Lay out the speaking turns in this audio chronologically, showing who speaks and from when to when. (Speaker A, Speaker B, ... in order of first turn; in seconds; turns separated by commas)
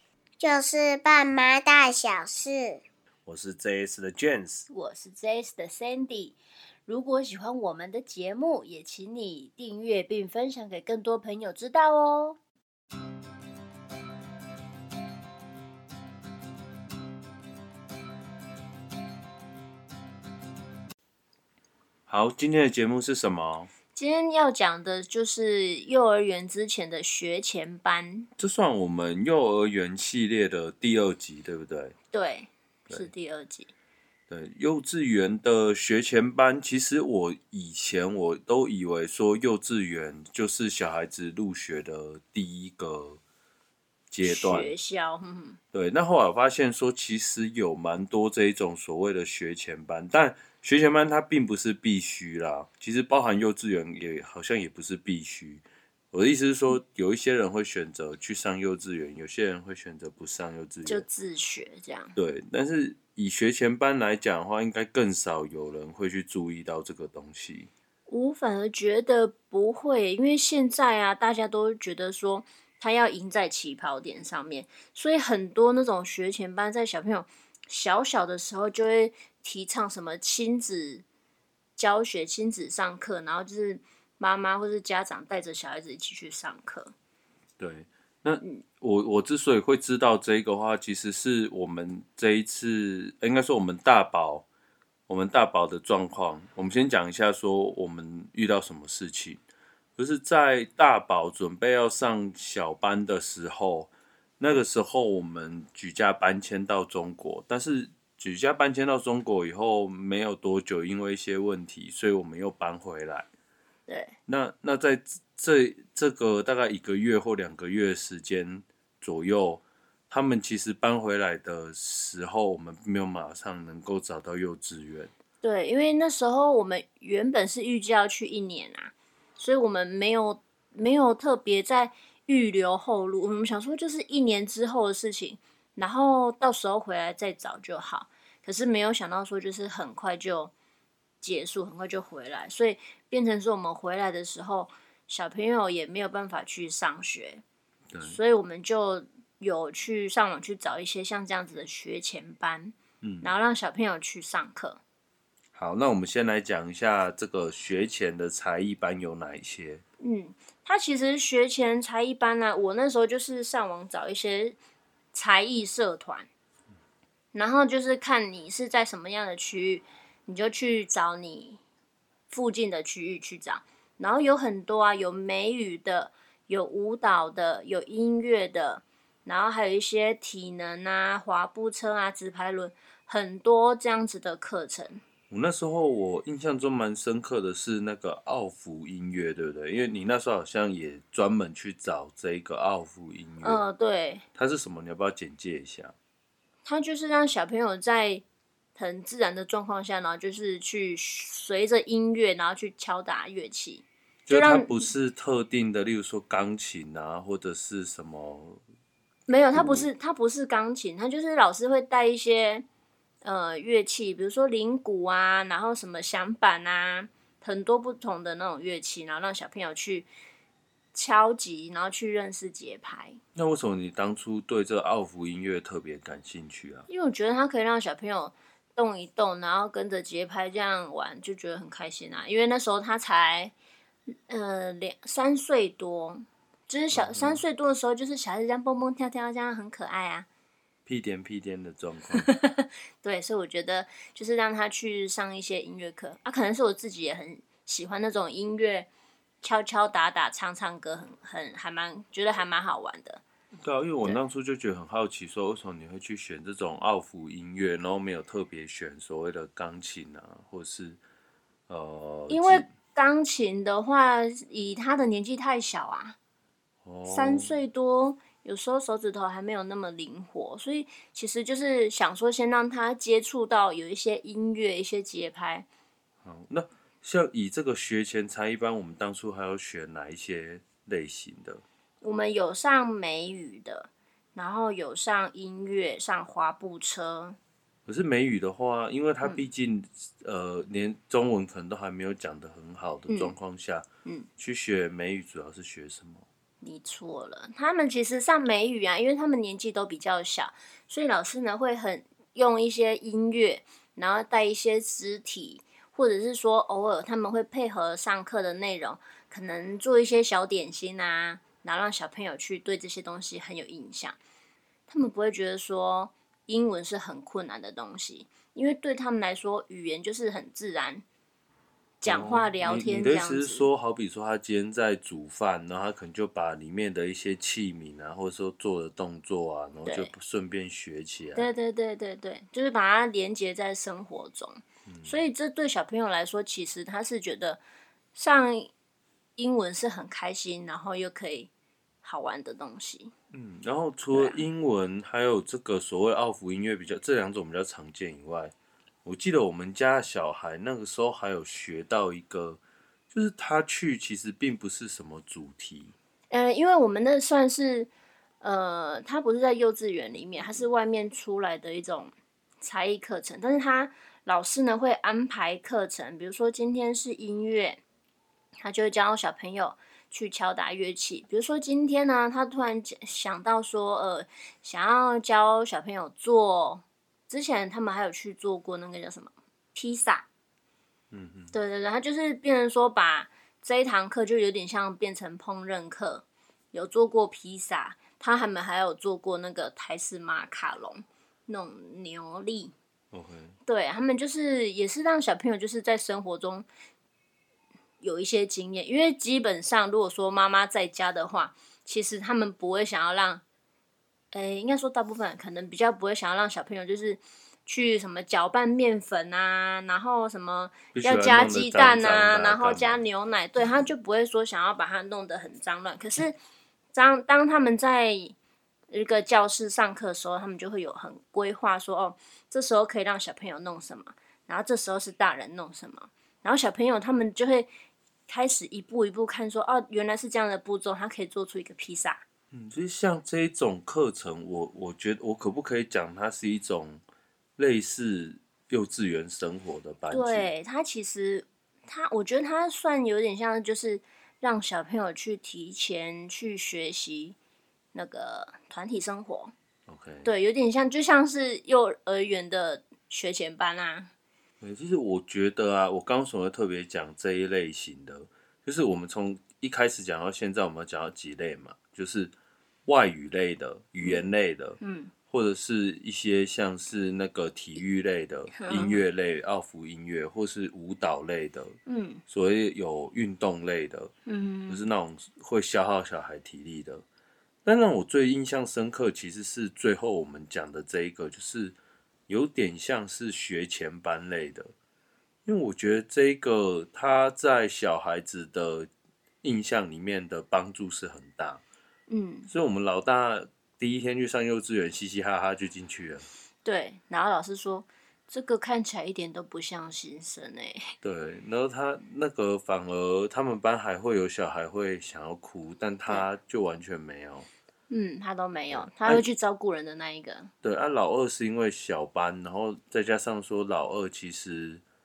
Speaker A: 0.4-2.8, Speaker B: 3.2-4.7, Speaker C: 4.7-12.4, Speaker B: 22.1-23.7, Speaker C: 23.9-28.3, Speaker B: 28.4-31.9, Speaker C: 32.1-33.7, Speaker B: 34.3-43.2, Speaker B: 44.1-44.7, Speaker C: 44.2-45.6, Speaker B: 45.7-61.0, Speaker C: 60.9-62.1, Speaker B: 62.1-67.7, Speaker C: 68.1-81.0, Speaker C: 81.8-86.9, Speaker B: 87.6-94.5, Speaker B: 95.1-99.4, Speaker B: 100.0-113.3, Speaker C: 113.9-114.1, Speaker B: 114.3-125.1, Speaker C: 125.4-140.5, Speaker C: 141.2-147.4, Speaker B: 147.9-148.2, Speaker C: 148.0-154.8, Speaker B: 153.0-153.3, Speaker B: 155.5-159.8, Speaker C: 160.0-164.6, Speaker C: 165.1-166.3, Speaker C: 167.3-171.6, Speaker C: 172.3-185.0, Speaker B: 185.3-193.6, Speaker C: 193.4-194.2, Speaker B: 194.3-195.9, Speaker C: 196.6-198.2, Speaker C: 198.8-204.9, Speaker B: 204.3-208.6, Speaker C: 209.3-212.6, Speaker B: 209.5-209.9, Speaker C: 213.2-220.1, Speaker C: 220.9-223.2, Speaker B: 223.3-226.9, Speaker C: 226.9-233.5, Speaker C: 234.3-240.3, Speaker B: 236.9-237.4, Speaker B: 240.8-242.3, Speaker C: 242.2-248.9, Speaker C: 249.4-253.2, Speaker B: 253.6-261.0, Speaker B: 261.7-262.7, Speaker C: 262.3-266.1, Speaker B: 266.8-267.5, Speaker C: 267.1-275.7, Speaker B: 276.2-281.6, Speaker C: 282.0-287.4, Speaker B: 287.9-293.9, Speaker C: 293.1-293.3, Speaker B: 294.4-296.2, Speaker C: 296.6-314.2, Speaker C: 314.9-321.0, Speaker C: 322.0-323.7, Speaker B: 322.0-331.5, Speaker C: 331.3-337.6, Speaker B: 334.9-335.2, Speaker C: 338.1-338.7, Speaker C: 339.4-341.5, Speaker C: 342.0-343.1, Speaker B: 343.3-348.5, Speaker C: 344.1-344.4, Speaker B: 349.0-355.9, Speaker C: 356.3-357.9, Speaker C: 358.4-367.8, Speaker C: 368.6-380.3, Speaker B: 381.1-381.5, Speaker C: 381.5-392.7, Speaker B: 393.1-393.6, Speaker C: 393.6-396.6, Speaker C: 398.0-403.4, Speaker C: 404.3-416.4, Speaker B: 410.9-413.0, Speaker C: 416.9-418.4, Speaker C: 418.9-427.7, Speaker C: 428.3-432.2, Speaker B: 432.5-437.0, Speaker B: 437.6-440.5, Speaker C: 440.1-447.4, Speaker C: 447.9-449.5, Speaker B: 449.9-450.3, Speaker C: 450.2-454.1, Speaker B: 454.6-462.3, Speaker B: 462.9-471.8, Speaker C: 464.8-465.1, Speaker C: 468.6-469.0, Speaker C: 471.9-472.2, Speaker B: 472.3-474.1, Speaker C: 474.2-474.8, Speaker B: 474.7-477.0, Speaker B: 477.6-481.8, Speaker B: 482.3-484.7, Speaker B: 485.4-488.9, Speaker B: 489.4-491.6, Speaker C: 492.1-492.5, Speaker B: 492.5-496.2, Speaker C: 496.6-500.9, Speaker B: 501.0-507.5, Speaker C: 507.9-510.5, Speaker B: 508.7-509.2, Speaker B: 510.6-514.8